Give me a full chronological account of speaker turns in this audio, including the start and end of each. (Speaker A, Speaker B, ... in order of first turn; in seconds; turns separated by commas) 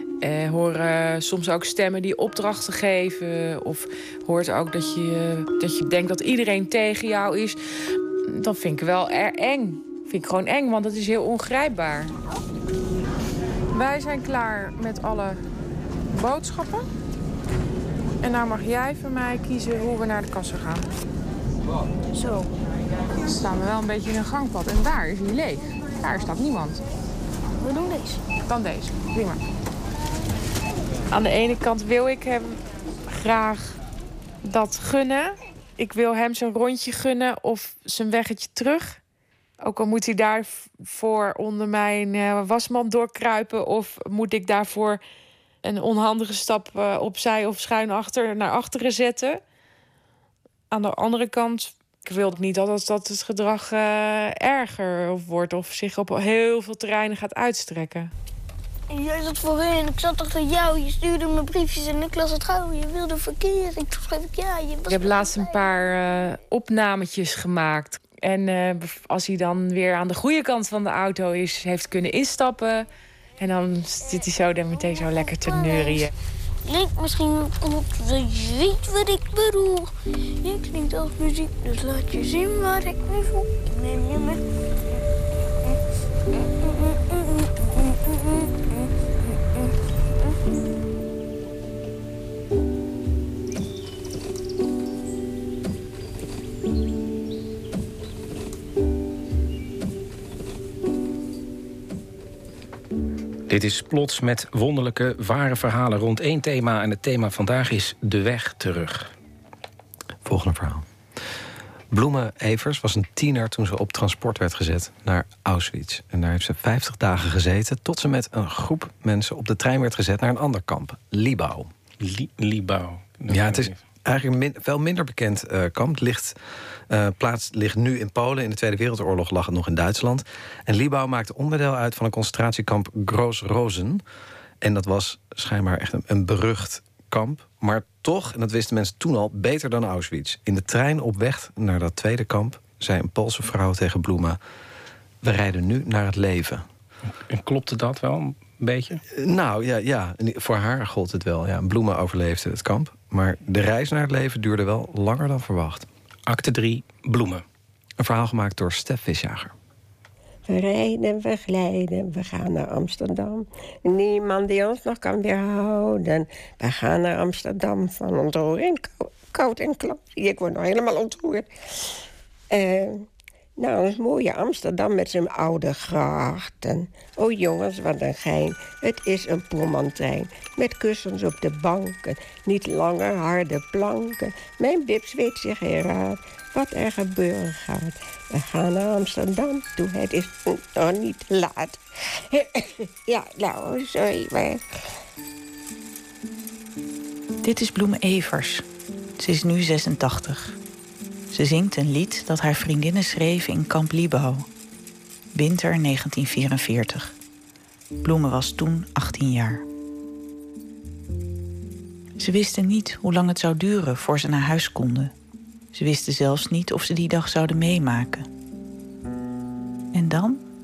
Speaker A: 0.2-12.1, Speaker A: 13.7-15.4, Speaker A: 16.1-16.9, Speaker A: 18.2-20.9, Speaker B: 22.1-22.5, Speaker A: 23.3-26.8, Speaker B: 27.6-28.2, Speaker A: 28.5-29.4, Speaker A: 31.1-33.8, Speaker A: 34.4-39.0, Speaker A: 39.6-45.0, Speaker A: 45.6-49.4, Speaker A: 50.7-58.1, Speaker B: 58.9-65.6, Speaker A: 64.9-72.9, Speaker A: 73.4-76.1, Speaker B: 74.9-76.0, Speaker B: 76.6-84.4, Speaker B: 86.5-88.6, Speaker C: 103.5-109.1, Speaker D: 110.2-110.8, Speaker D: 111.9-121.7, Speaker C: 122.0-123.8, Speaker D: 123.3-126.4, Speaker D: 126.9-134.0, Speaker D: 134.6-144.4, Speaker D: 145.2-146.6, Speaker C: 147.3-149.0, Speaker D: 149.1-155.9, Speaker C: 156.3-157.4, Speaker D: 158.0-159.5, Speaker E: 160.5-171.9, Speaker E: 172.5-173.0, Speaker E: 173.6-194.6, Speaker F: 197.4-198.7, Speaker F: 199.2-200.6, Speaker F: 201.3-204.5, Speaker F: 205.3-207.2, Speaker F: 208.0-209.6, Speaker F: 212.2-215.1, Speaker F: 215.7-218.3, Speaker F: 219.9-220.4